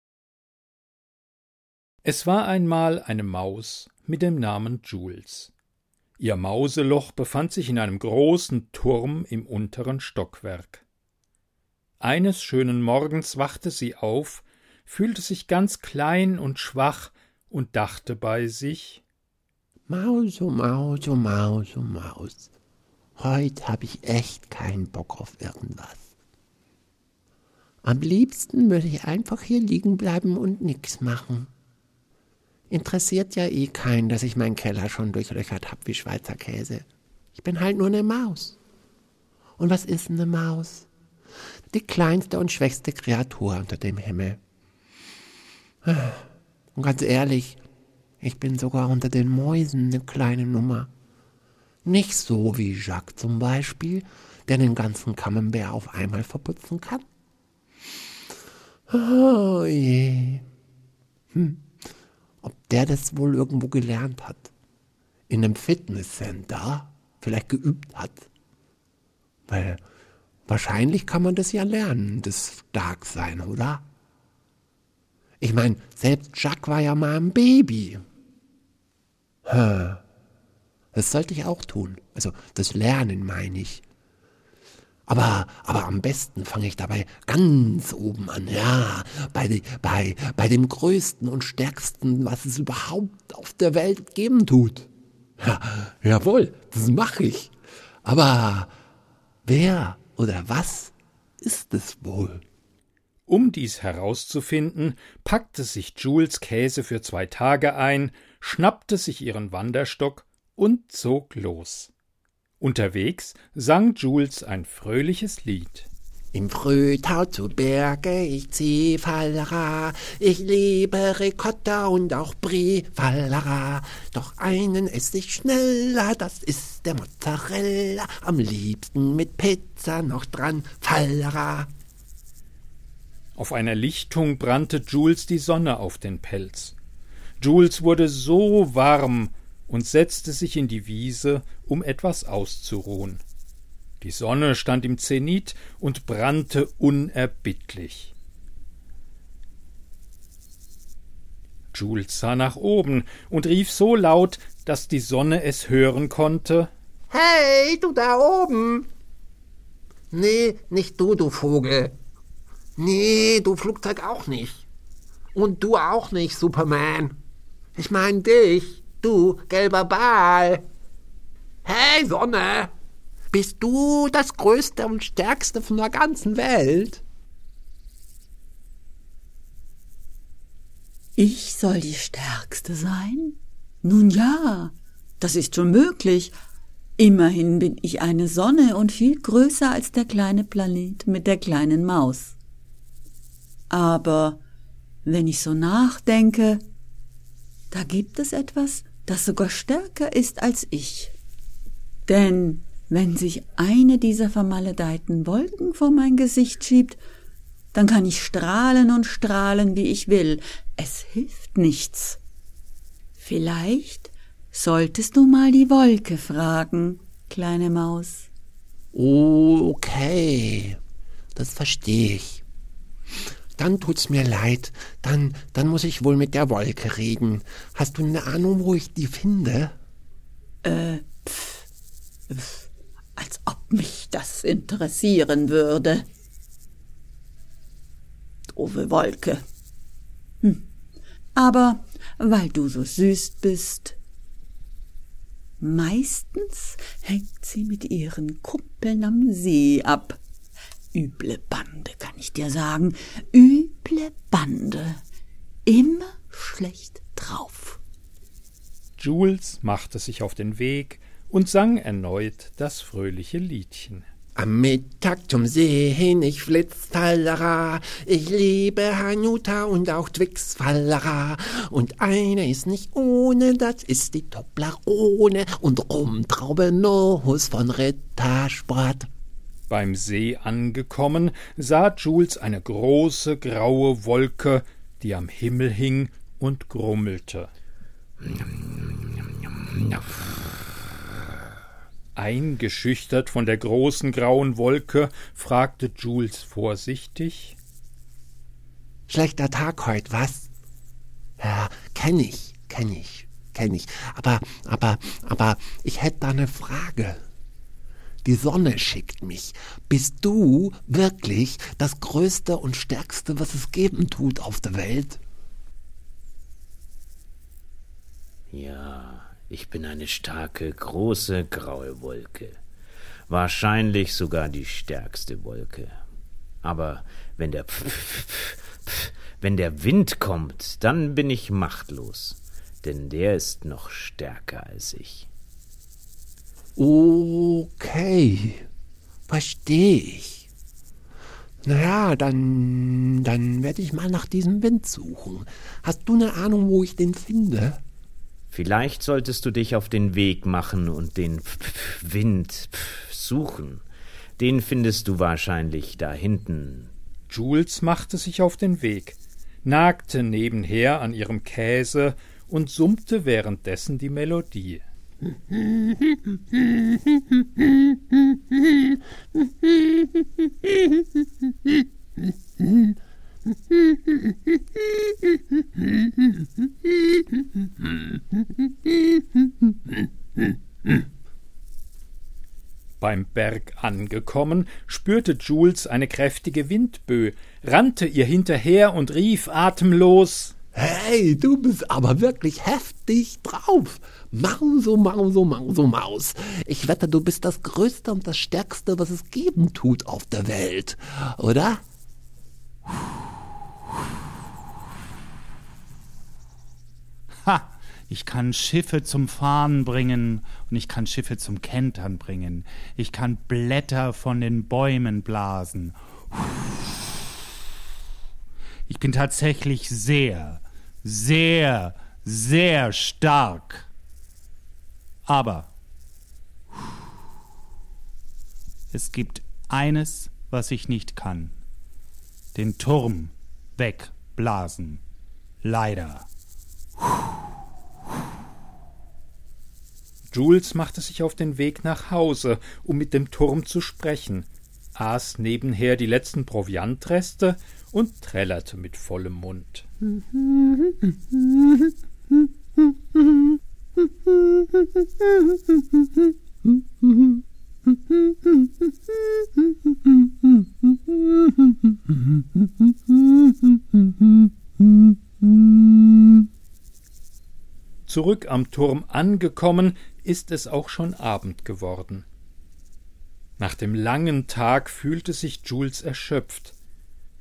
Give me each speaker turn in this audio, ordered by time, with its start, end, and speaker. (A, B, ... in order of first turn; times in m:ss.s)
0:02.0-0:05.5 A
0:06.2-0:10.8 A
0:12.0-0:19.0 A
0:19.9-0:22.5 B
0:23.2-0:26.0 B
0:27.8-0:31.5 B
0:32.7-0:38.6 B
0:39.6-0:40.9 B
0:41.7-0:44.4 B
0:45.8-0:47.6 B
0:48.2-0:50.9 B
0:51.8-0:57.0 B
0:58.9-1:00.4 B
1:01.3-1:01.6 B
1:02.4-1:04.5 B
1:05.3-1:08.3 B
1:09.5-1:09.8 B
1:10.5-1:13.8 B
1:15.4-1:18.0 B
1:19.4-1:20.0 B
1:20.9-1:23.8 B
1:25.1-1:34.9 B
1:35.4-1:37.5 B
1:38.0-1:38.7 B
1:39.4-1:42.4 B
1:43.3-1:51.9 A
1:52.6-1:55.9 A
1:56.3-2:11.7 B
2:13.4-2:16.7 A
2:17.4-2:23.2 A
2:24.0-2:28.1 A
2:31.7-2:36.7 A
2:37.1-2:38.8 B
2:40.1-2:41.9 B
2:42.8-2:44.6 B
2:45.3-2:47.2 B
2:47.8-2:50.6 B
2:51.6-2:52.7 B
2:53.3-2:57.0 B
3:01.2-3:06.4 C
3:07.0-3:12.3 C
3:13.7-3:14.4 C
3:15.0-3:16.6 C
3:17.7-3:21.1 C
3:22.1-3:27.0 C
3:27.7-3:32.2 C
3:33.2-3:38.3 C
3:38.9-3:40.8 B
3:41.3-3:42.4 B
3:43.6-3:49.7 B
3:50.6-3:51.6 C
3:52.3-3:56.0 C
3:58.5-3:59.4 C
4:01.3-4:04.0 C
4:05.6-4:10.2 C
4:10.9-4:15.0 C
4:15.6-4:17.8 C
4:19.0-4:24.0 A
4:24.4-4:39.1 B
4:39.7-4:47.5 A
4:52.1-4:57.6 A
4:59.1-5:00.5 B
5:01.4-5:07.2 B
5:08.2-5:15.2 B
5:18.5-5:22.6 D
5:23.3-5:26.0 D
5:26.6-5:35.3 D
5:36.8-5:38.6 B
5:39.3-5:40.5 B
5:41.6-5:47.8 B
5:48.5-5:53.8 D
5:54.4-5:56.9 D
5:57.3-6:04.8 A
6:23.0-6:30.5 A
6:30.7-6:41.8 B
6:47.4-6:57.0 E
6:58.9-7:03.9 E
7:05.2-7:05.7 E
7:08.9-7:11.6 E
7:12.5-7:15.0 E
7:15.6-7:16.3 E
7:20.3-7:29.9 A
7:48.1-7:52.2 A
7:53.6-7:56.7 A